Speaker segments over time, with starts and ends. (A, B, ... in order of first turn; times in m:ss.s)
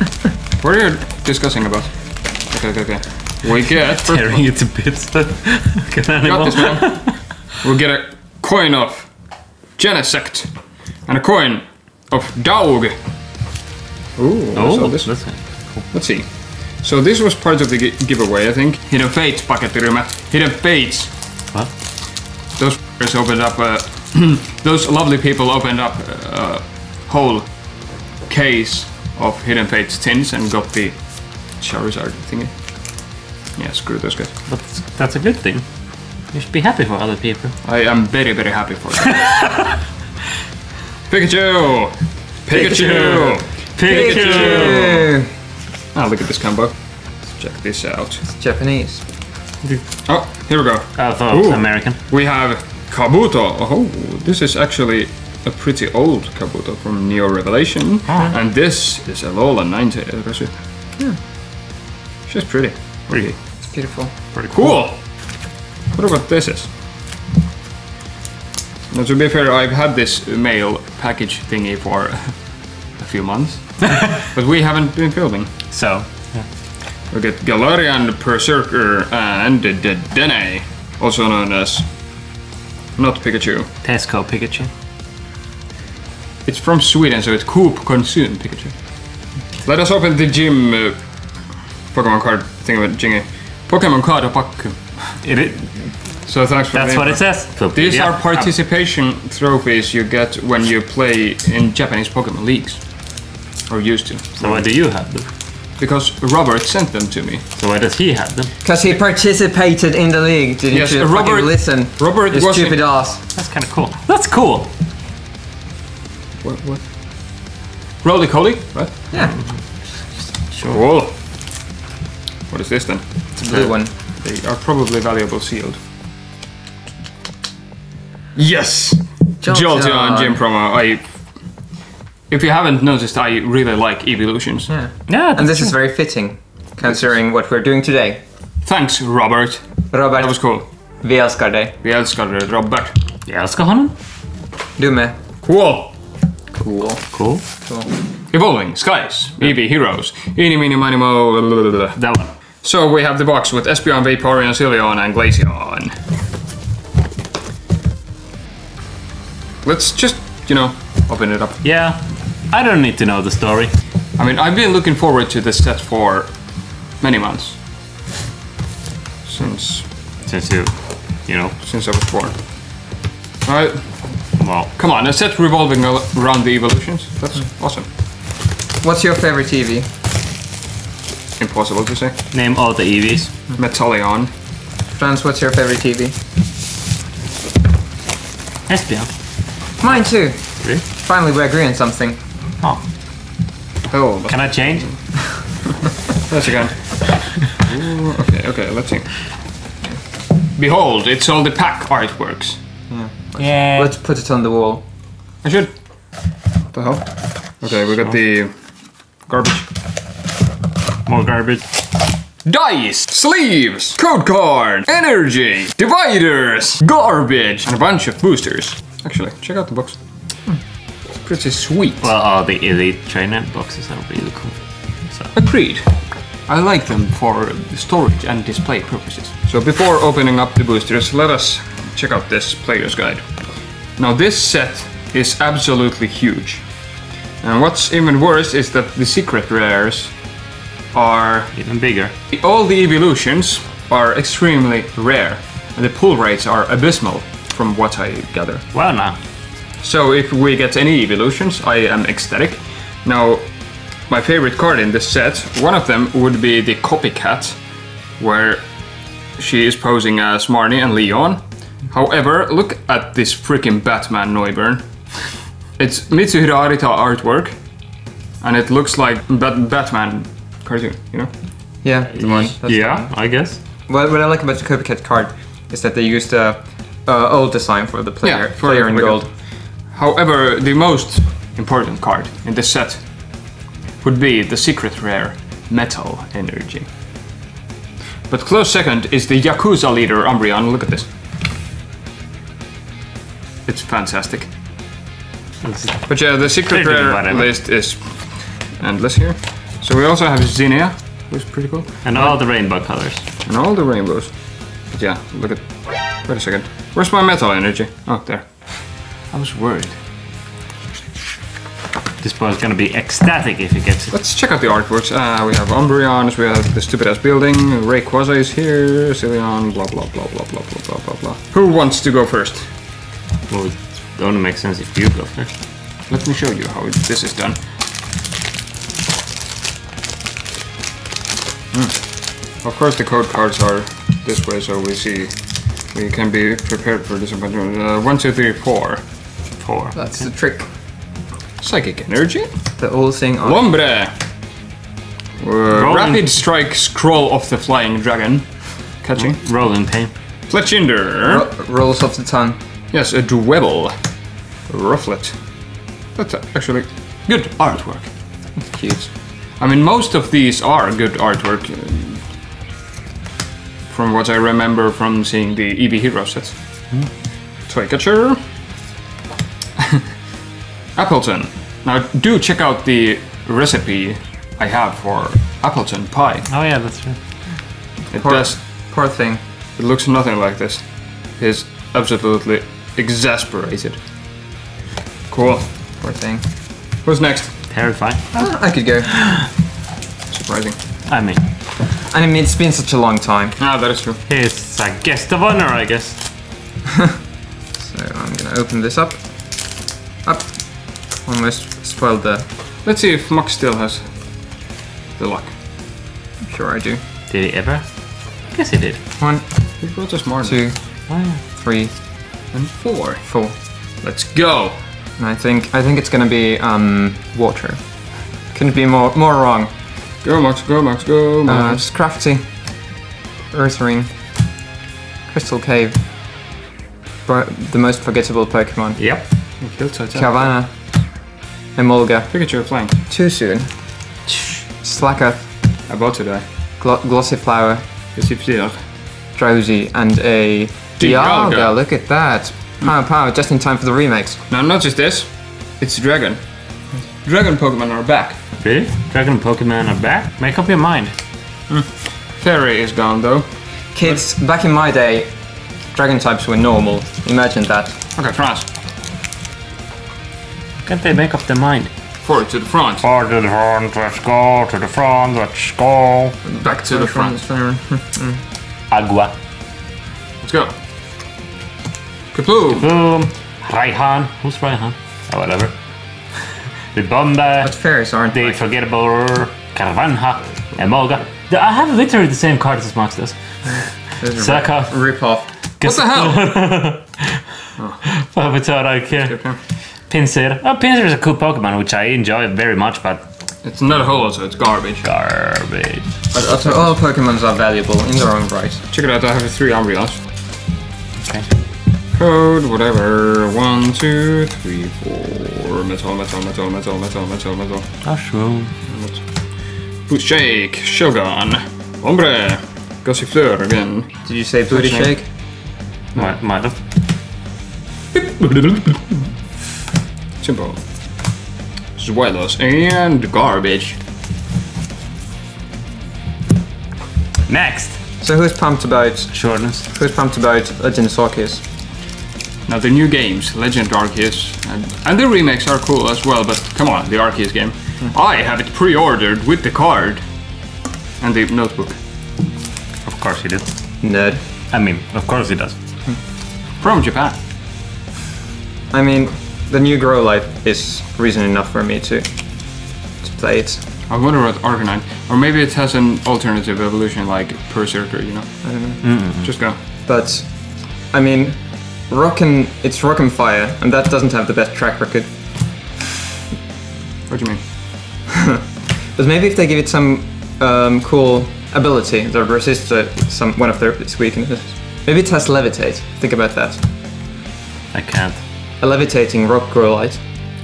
0:00.6-0:04.4 A
0:04.0-0:07.3 B
0:06.2-0:09.2 A
0:09.7-0:10.5 A
0:11.0-0:12.9 A
0:14.2-0:15.1 A
0:14.5-0:15.8 B
0:15.8-0:21.1 A
0:22.6-0:27.6 A
0:28.2-0:32.5 A
0:33.6-0:34.4 A
0:34.5-0:35.6 B
0:36.3-0:37.5 B
0:37.6-0:39.4 A
0:41.1-0:44.9 A
0:42.5-0:45.3 C
0:42.6-0:45.1 B
0:45.9-0:48.2 A
0:48.2-0:49.0 C
0:50.0-1:00.5 A
0:51.0-0:52.0 B
0:58.1-0:58.3 B
1:02.2-1:03.4 A
1:03.7-1:04.1 C
1:04.3-1:04.8 B
1:04.5-1:06.7 A
1:08.9-1:15.5 A
1:15.7-1:16.4 B
1:17.1-1:21.9 A
1:23.0-1:23.7 A
1:23.8-1:24.7 B
1:26.4-1:29.0 A
1:29.6-1:31.0 A
1:31.9-1:35.2 A
1:35.2-1:36.2 B
1:36.2-1:42.8 A
1:36.7-1:38.5 B
1:43.7-1:44.7 A
1:44.4-1:45.3 B
1:45.8-1:47.4 A
1:47.6-1:48.5 B
1:48.6-1:53.2 C
1:50.7-1:52.8 A
1:53.3-1:54.7 B
1:56.4-1:56.8 A
1:58.0-1:59.0 A
1:59.1-1:59.4 C
1:59.1-2:00.8 B
2:00.6-2:01.1 A
2:02.5-2:03.0 A
2:03.3-2:03.9 C
2:04.2-2:05.8 A
2:08.3-2:11.1 A
2:09.4-2:10.4 C
2:12.3-2:14.7 A
2:14.7-2:18.2 C
2:15.1-2:15.8 B
2:18.6-2:20.7 A
2:19.9-2:21.7 C
2:21.8-2:23.0 A
2:23.3-2:23.9 B
2:24.8-2:25.2 C
2:25.4-2:25.9 A
2:26.5-2:27.9 C
2:27.1-2:27.4 B
2:28.3-2:35.9 A
2:32.0-2:32.3 B
2:39.6-2:41.6 A
2:41.6-2:43.7 B
2:44.2-2:47.6 A
2:49.2-2:49.9 A
2:50.2-2:51.6 B
2:51.6-2:52.4 A
2:53.4-2:57.9 A
2:54.4-2:54.7 B
2:58.8-2:59.9 C
3:01.4-3:02.2 A
3:02.3-3:03.3 B
3:03.5-3:04.3 A
3:04.9-3:06.2 C
3:08.7-3:09.1 B
3:09.8-3:12.2 C
3:13.9-3:20.0 A
3:14.3-3:15.3 B
3:20.5-3:22.6 A
3:22.9-3:24.8 C
3:23.4-3:23.9 B
3:25.4-3:25.8 A
3:26.7-3:28.6 A
3:29.2-3:29.6 A
3:31.0-3:31.6 B
3:32.4-3:40.0 A
3:41.2-3:42.1 A
3:42.0-3:45.3 B
3:45.3-3:45.8 A
3:46.5-3:53.3 A
3:54.0-3:56.6 A
3:57.4-4:00.1 A
4:00.9-4:01.5 A
4:01.5-4:02.1 B
4:02.3-4:08.6 A
4:08.7-4:09.2 B
4:09.8-4:13.5 A
4:14.1-4:17.6 A
4:18.2-4:18.6 A
4:19.4-4:24.9 A
4:25.8-4:27.6 A
4:28.4-4:31.3 A
4:31.8-4:33.2 C
4:32.2-4:33.6 B
4:33.9-4:39.3 C
4:38.2-4:43.3 A
4:44.0-4:46.9 A
4:48.3-4:51.1 A
4:53.6-4:54.5 A
4:55.6-4:57.5 B
4:56.0-5:02.3 A
5:02.0-5:03.2 B
5:03.4-5:08.7 A
5:09.3-5:10.0 A
5:12.2-5:14.1 B
5:14.1-5:22.7 A
5:23.5-5:25.5 B
5:26.1-5:27.6 A
5:31.7-5:35.4 A
5:35.9-5:39.0 A
5:39.6-5:40.0 B
5:39.9-5:40.7 C
5:41.6-5:42.5 A
5:42.8-5:43.7 C
5:43.4-5:44.1 A
5:45.4-5:49.4 A
5:45.7-5:46.3 B
5:49.2-5:50.1 B
5:50.5-5:51.4 A
5:51.2-5:52.6 C
5:52.9-5:53.9 A
5:54.7-5:55.4 A
5:56.1-5:58.1 A
5:58.6-5:59.1 C
5:59.6-6:02.3 A
6:03.9-6:06.6 A
6:07.7-6:08.4 A
6:11.0-6:16.5 A
6:16.5-6:17.2 B
6:18.1-6:18.6 A
6:18.2-6:19.4 C
6:19.8-6:24.0 A
6:25.3-6:25.7 A
6:26.0-6:26.4 C
6:27.0-6:27.6 A
6:27.7-6:28.5 B
6:28.3-6:29.2 C
6:30.3-6:30.8 A
6:31.1-6:31.4 B
6:32.0-6:33.6 C
6:33.6-6:34.2 A
6:34.3-6:36.2 B
6:37.8-6:42.5 C
6:42.8-6:44.2 A
6:45.2-6:45.5 A
6:46.4-6:47.0 C
6:47.3-6:49.0 B
6:49.2-6:49.4 C
6:49.8-6:50.6 A
6:50.4-6:51.9 C
6:51.1-6:51.4 B
6:52.5-6:53.3 A
6:53.3-6:53.5 C
6:54.0-6:54.8 A
6:55.2-6:59.7 C
7:00.2-7:01.8 A
7:01.4-7:02.8 C
7:03.5-7:04.1 C
7:05.3-7:06.0 C
7:07.2-7:09.0 C
7:09.0-7:09.2 B
7:09.6-7:10.5 A
7:10.1-7:11.0 C
7:11.7-7:12.3 C
7:12.3-7:12.9 A
7:13.0-7:13.7 C
7:14.8-7:15.5 C
7:15.9-7:16.4 A
7:16.8-7:17.8 C
7:18.2-7:18.8 A
7:19.3-7:24.4 C
7:21.0-7:21.8 A
7:24.5-7:26.4 A
7:27.2-7:28.4 A
7:28.6-7:31.1 B
7:31.7-7:33.5 A
7:33.9-7:38.0 C
7:38.2-7:38.7 A
7:40.8-7:41.9 B
7:42.2-7:43.0 A
7:43.0-7:46.4 B
7:46.4-7:48.4 C
7:46.6-7:47.4 A
7:48.9-7:49.3 B
7:50.4-7:50.7 A
7:52.3-7:52.9 A
7:52.8-7:55.7 B
7:56.9-7:57.7 B
7:57.6-7:58.6 C
7:58.3-8:05.0 B
8:04.2-8:05.5 C
8:05.8-8:07.4 B
8:05.8-8:06.4 A
8:07.8-8:08.0 A
8:08.0-8:09.5 B
8:09.2-8:09.6 A
8:10.1-8:13.2 B
8:13.6-8:15.0 A
8:15.0-8:16.1 B
8:16.3-8:18.8 C
8:16.6-8:16.9 A
8:18.9-8:20.2 A
8:21.2-8:21.5 B
8:22.1-8:28.0 A
8:28.0-8:28.7 B
8:28.8-8:29.5 A
8:30.0-8:35.1 A
8:34.2-8:35.3 C
8:36.2-8:36.8 B
8:38.1-8:39.2 A
8:40.4-8:40.8 A
8:42.0-8:44.0 A
8:47.5-8:48.0 B
8:48.2-8:51.6 C
8:49.3-8:49.9 B
8:52.7-9:00.2 A
9:01.2-9:02.0 A
9:03.0-9:03.6 B
9:04.0-9:04.4 C
9:04.7-9:05.8 B
9:06.8-9:07.4 A
9:08.9-9:13.8 C
9:14.1-9:19.8 A
9:18.6-9:19.1 C
9:19.0-9:19.5 B
9:20.0-9:25.3 C
9:27.3-9:27.6 A
9:28.3-9:36.8 C
9:37.9-9:38.4 B
9:38.8-9:40.2 C